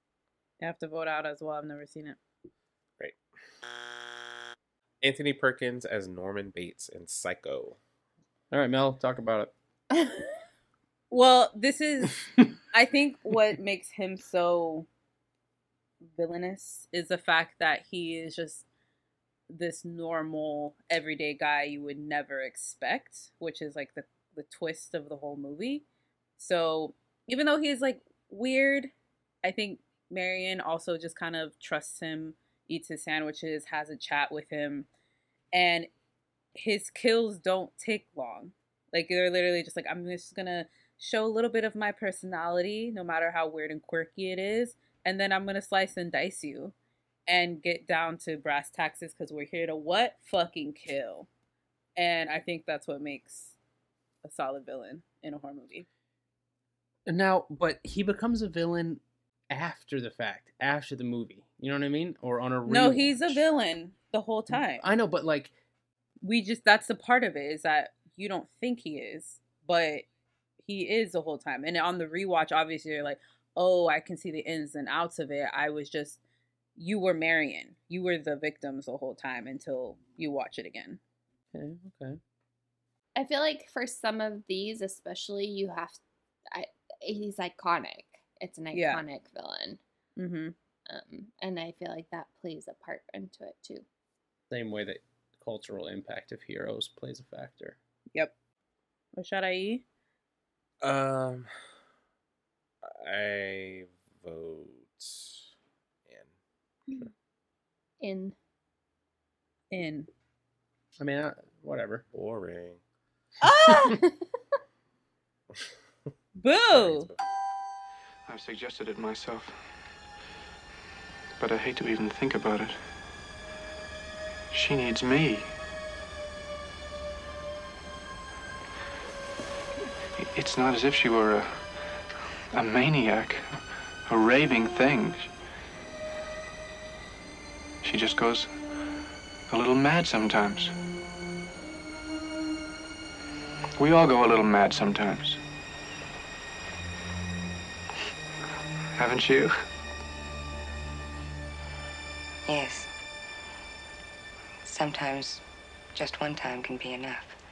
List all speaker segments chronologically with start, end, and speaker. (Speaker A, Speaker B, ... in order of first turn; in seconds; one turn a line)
Speaker A: 0.6-2.2
Speaker B: 5.0-7.8
Speaker C: 8.5-9.5
Speaker A: 11.1-14.9
Speaker A: 16.1-18.6
Speaker A: 19.5-25.8
Speaker A: 26.4-28.9
Speaker A: 29.4-34.9
Speaker A: 35.5-35.9
Speaker A: 36.5-46.7
Speaker A: 47.3-51.3
Speaker A: 52.0-53.5
Speaker A: 54.2-55.9
Speaker C: 57.1-63.4
Speaker A: 62.6-64.8
Speaker C: 64.5-65.5
Speaker A: 66.2-70.0
Speaker A: 70.6-76.2
Speaker A: 76.8-81.0
Speaker C: 81.5-82.2
Speaker D: 83.2-86.0
Speaker D: 86.5-89.8
Speaker A: 88.7-89.0
Speaker A: 90.2-90.5
Speaker D: 90.9-93.8
Speaker C: 94.5-97.8
Speaker A: 99.1-99.8
Speaker B: 100.8-101.5
Speaker B: 102.8-105.4
Speaker B: 106.1-106.3
Speaker D: 108.0-108.3
Speaker A: 109.7-110.1
Speaker C: 111.0-112.0
Speaker B: 112.1-112.8
Speaker D: 113.5-114.1
Speaker A: 116.4-117.1
Speaker B: 116.7-117.2
Speaker E: 118.3-119.6
Speaker E: 121.4-122.9
Speaker E: 124.5-125.5
Speaker E: 130.2-131.8
Speaker E: 132.5-135.3
Speaker E: 137.8-138.6
Speaker E: 139.5-140.7
Speaker E: 143.8-145.4
Speaker E: 148.9-149.6
Speaker F: 152.4-152.9
Speaker F: 154.6-155.4
Speaker F: 155.9-157.3